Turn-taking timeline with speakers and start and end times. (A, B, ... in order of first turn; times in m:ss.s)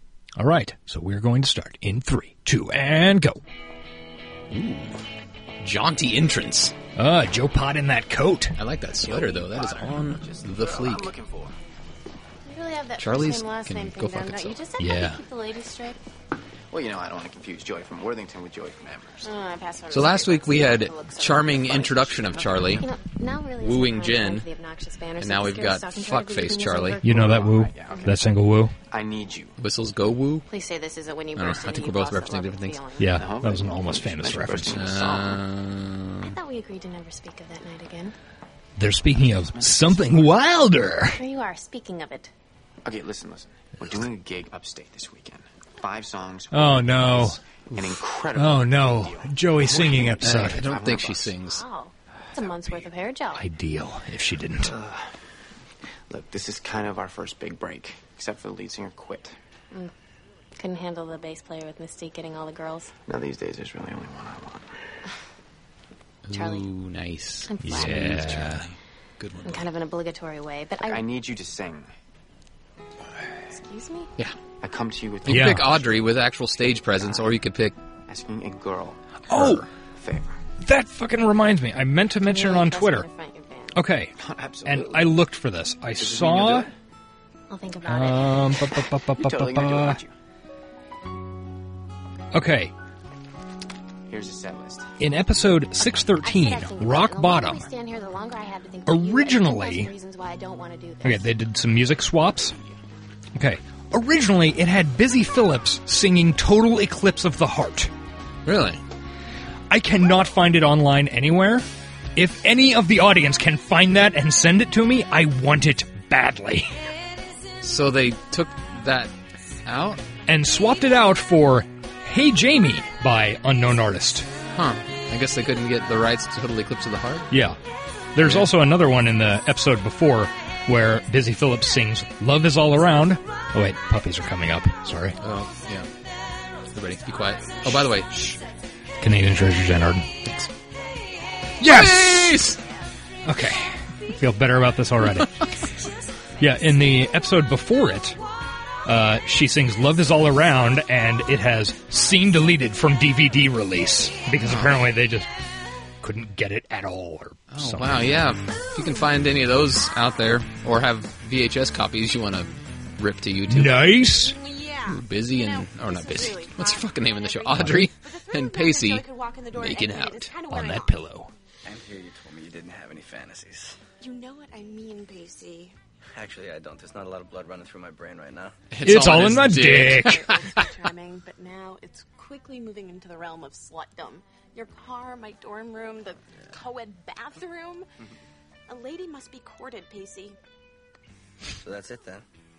0:00.4-0:03.4 A
0:04.5-0:05.0 B
0:05.6-0:06.8 B
0:07.0-0:08.6 A
0:08.6-0:11.1 B
0:09.0-0:11.5 C
0:12.4-0:16.0 D
0:13.0-0:14.6 B
0:14.8-0:15.2 A
0:16.7-0:19.3 C
0:19.2-0:21.8 D
0:19.9-0:22.8 B
0:21.5-0:22.8 C
0:22.8-0:27.2 D
0:23.6-0:24.5 B
0:25.2-0:27.0 B
0:27.0-0:28.2 C
0:27.0-0:28.7 A
0:28.9-0:29.5 C
0:29.6-0:30.5 B
0:30.5-0:33.3 D
0:31.3-0:32.8 B
0:33.0-0:34.8 A
0:33.1-0:35.4 C
0:34.7-0:36.3 B
0:36.2-0:38.1 D
0:38.8-0:41.2 A
0:39.5-0:40.3 C
0:41.1-0:42.3 D
0:42.8-0:51.3 C
0:46.5-0:47.4 A
0:48.3-0:50.6 A
0:50.2-0:51.6 B
0:51.4-0:53.4 D
0:53.4-0:54.7 A
0:54.6-0:55.0 C
0:56.1-0:59.4 C
1:00.6-1:02.9 D
1:03.1-1:04.7 C
1:06.2-1:09.7 B
1:06.3-1:06.7 D
1:07.4-1:08.4 D
1:07.6-1:08.7 A
1:09.4-1:11.1 D
1:10.8-1:11.9 C
1:13.5-1:14.1 D
1:14.6-1:17.4 C
1:15.2-1:17.8 B
1:15.3-1:15.7 A
1:18.1-1:20.4 C
1:19.3-1:19.6 A
1:20.6-1:23.1 A
1:22.2-1:23.8 D
1:23.7-1:24.1 A
1:24.2-1:25.2 C
1:24.6-1:26.7 A
1:26.0-1:26.7 C
1:27.5-1:28.6 D
1:27.8-1:30.0 A
1:29.1-1:30.1 C
1:32.3-1:32.7 A
1:34.1-1:34.9 C
1:35.0-1:37.7 A
1:36.1-1:41.3 D
1:38.9-1:39.9 A
1:41.0-1:42.6 A
1:43.4-1:47.9 A
1:48.4-1:48.8 B
1:49.7-1:56.8 A
1:57.6-1:59.1 B
1:59.6-2:00.0 B
2:00.3-2:04.3 A
2:04.5-2:07.3 B
2:07.3-2:07.6 A
2:08.1-2:15.2 A
2:08.2-2:08.5 B
2:15.2-2:15.9 B
2:16.7-2:18.4 B
2:19.0-2:20.1 A
2:20.2-2:20.5 B
2:21.6-2:22.5 A
2:21.6-2:22.6 B
2:23.2-2:25.5 A
2:26.4-2:28.2 A
2:28.8-2:35.3 A
2:34.4-2:34.8 B
2:36.0-2:38.1 A
2:37.5-2:43.9 B
2:43.5-2:44.4 A
2:44.0-2:51.0 E
2:44.9-2:50.3 B
2:50.5-2:51.3 A
2:51.6-2:53.8 F
2:54.0-2:55.7 E
2:56.1-2:58.6 F
2:58.7-3:00.6 B
2:58.8-3:00.2 A
2:59.1-3:07.9 E
3:08.7-3:10.4 E
3:11.6-3:12.2 F